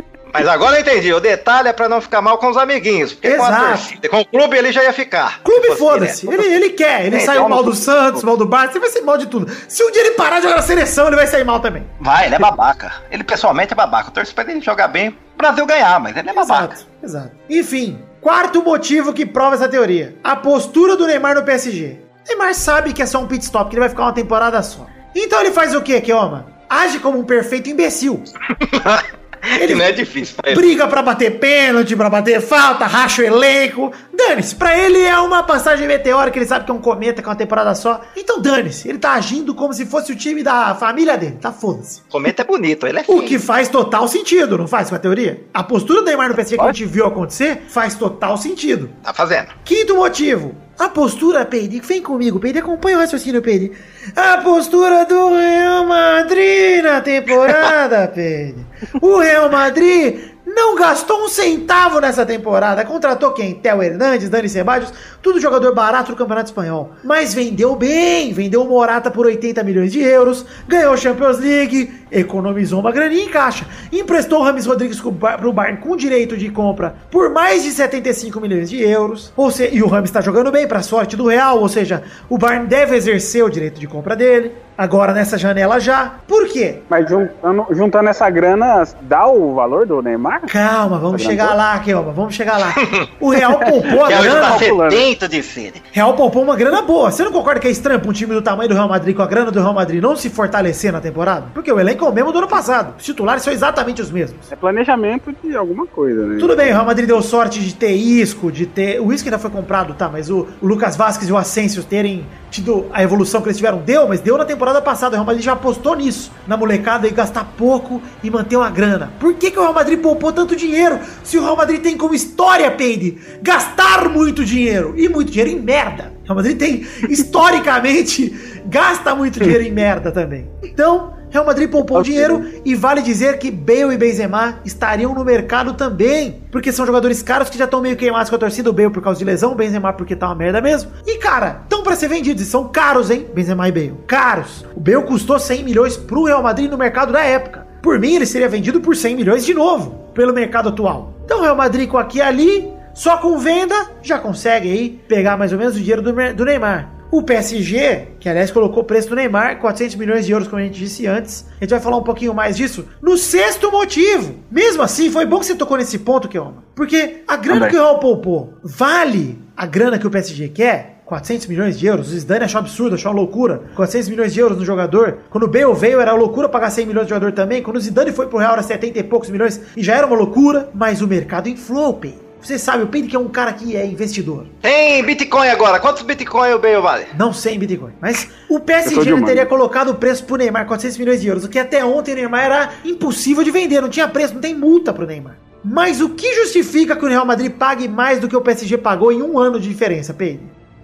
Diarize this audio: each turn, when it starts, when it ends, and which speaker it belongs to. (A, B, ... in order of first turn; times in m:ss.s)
0:00.3-0:06.6 A
0:03.2-0:03.9 B
0:05.4-0:11.9 B
0:07.1-0:07.5 A
0:07.1-0:08.2 C
0:12.0-0:16.7 A
0:16.3-0:28.3 B
0:28.5-0:30.6 A
0:29.6-0:30.0 B
0:30.5-0:42.0 B
0:42.1-0:43.4 A
0:43.1-0:49.0 B
0:49.0-0:49.5 A
0:49.6-1:26.9 B
1:26.9-1:30.5 C
1:30.5-1:34.7 B
1:31.1-1:31.6 C
1:34.0-1:35.0 C
1:34.0-1:35.8 A
1:35.9-1:44.5 B
1:44.5-1:46.8 C
1:46.4-3:04.5 B
2:12.0-2:12.4 C
2:47.5-2:47.8 C
3:04.6-3:07.1 A
3:07.1-3:20.5 B
3:08.8-3:09.5 C